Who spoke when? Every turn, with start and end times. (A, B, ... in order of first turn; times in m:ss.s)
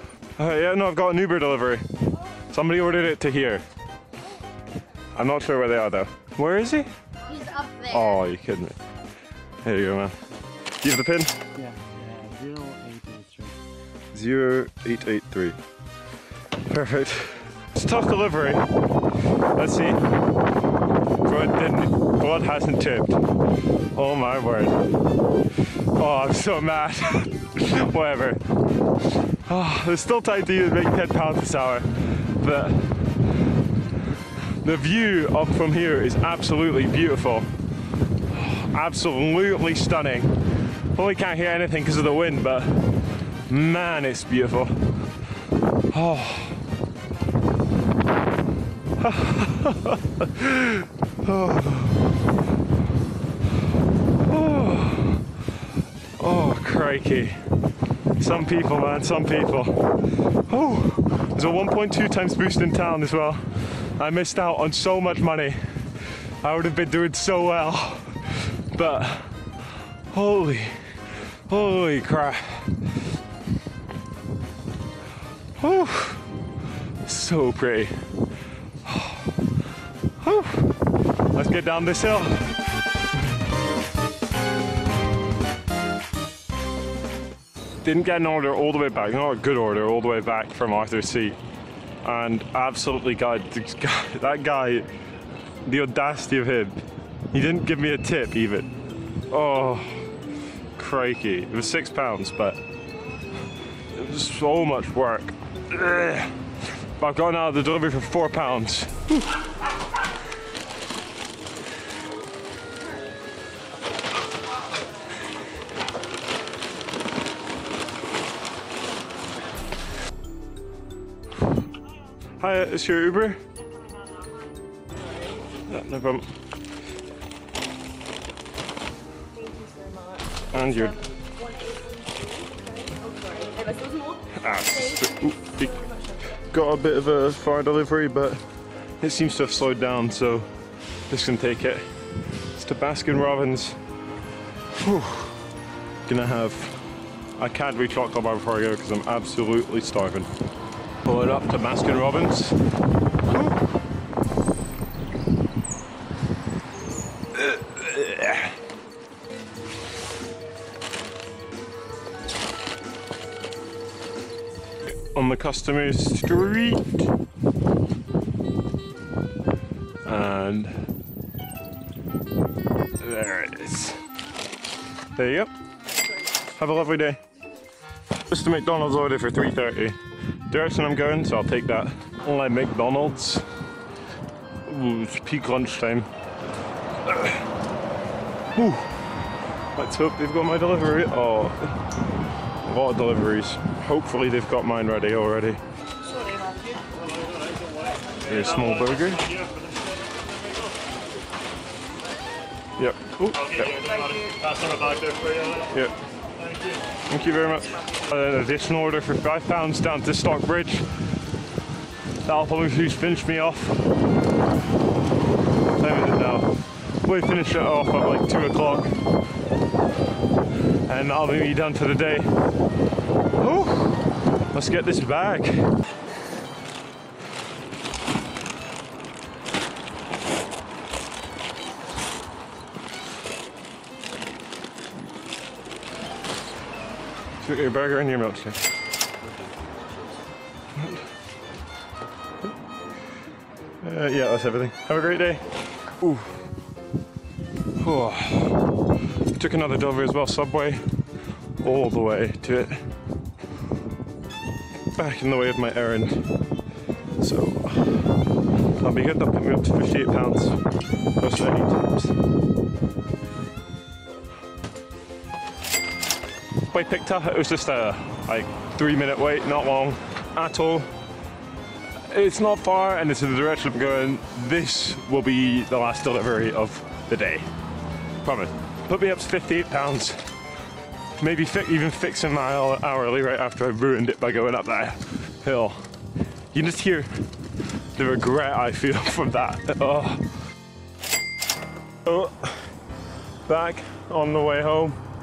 0:00.4-0:03.6 A
0:05.1-0:06.9 A
0:07.4-0:07.7 B
0:07.7-0:08.8 A
0:09.6-0:11.5 A
0:11.5-0:13.6 C
0:14.1-0:15.6 A
0:16.6-0:18.7 A
0:19.6-0:20.0 A
0:21.2-0:23.2 A
0:23.9-0:24.8 A
0:26.0-0:28.4 A
0:29.4-0:33.3 A
0:34.6-0:37.5 A
0:38.3-0:44.9 A
0:45.9-0:46.6 A
0:49.0-0:52.1 A
0:54.2-0:55.2 A
0:56.2-0:57.4 A
0:58.1-1:09.6 A
1:10.1-1:12.9 A
1:15.6-1:16.2 A
1:17.0-1:17.9 A
1:18.8-1:19.3 A
1:20.2-1:20.7 A
1:21.3-1:22.5 A
1:27.8-1:31.4 A
1:32.0-1:34.9 A
1:35.6-1:38.7 A
1:39.3-1:40.1 A
1:40.8-1:42.6 A
1:43.9-1:49.4 A
2:02.4-2:03.4 A
2:05.0-2:05.4 B
2:05.6-2:06.3 A
2:09.3-2:15.0 B
2:10.5-2:11.0 A
2:14.3-2:18.4 A
2:15.8-2:16.1 B
2:19.0-2:20.5 A
2:21.1-2:21.8 A
2:22.5-2:23.8 A
2:24.8-2:25.4 A
2:26.0-2:26.8 A
2:27.4-2:30.3 A
2:31.0-2:32.6 A
2:37.3-2:38.6 A
2:44.8-2:47.1 A
2:50.0-2:50.8 A
2:53.0-2:54.0 A
2:55.2-2:55.5 A
2:56.4-2:57.2 A
2:58.2-3:00.0 A
3:00.5-3:03.4 A
3:04.6-3:06.1 A
3:07.0-3:07.4 A
3:08.5-3:08.9 A
3:09.8-3:11.8 A
3:12.6-3:15.6 A
3:16.1-3:18.0 B
3:16.2-3:16.5 C
3:18.2-3:19.5 A
3:22.8-3:24.1 A
3:24.1-3:25.4 B
3:25.5-3:26.0 A
3:27.0-3:31.0 A
3:32.2-3:33.8 A
3:35.7-3:39.0 A
3:40.8-3:42.3 A
3:43.4-3:45.7 A
3:57.4-3:58.6 A
4:00.7-4:01.0 A
4:03.8-4:06.4 A
4:07.8-4:08.6 A
4:09.3-4:10.8 A
4:11.6-4:12.9 A
4:14.9-4:16.2 A
4:17.2-4:18.1 A
4:18.7-4:20.6 A
4:21.2-4:22.2 A
4:26.6-4:30.9 A
4:32.0-4:37.5 A
4:38.2-4:40.2 A
4:41.2-4:45.9 A
4:46.5-4:47.2 A
4:47.9-4:50.3 A
4:52.0-4:52.7 A
4:53.4-4:55.0 A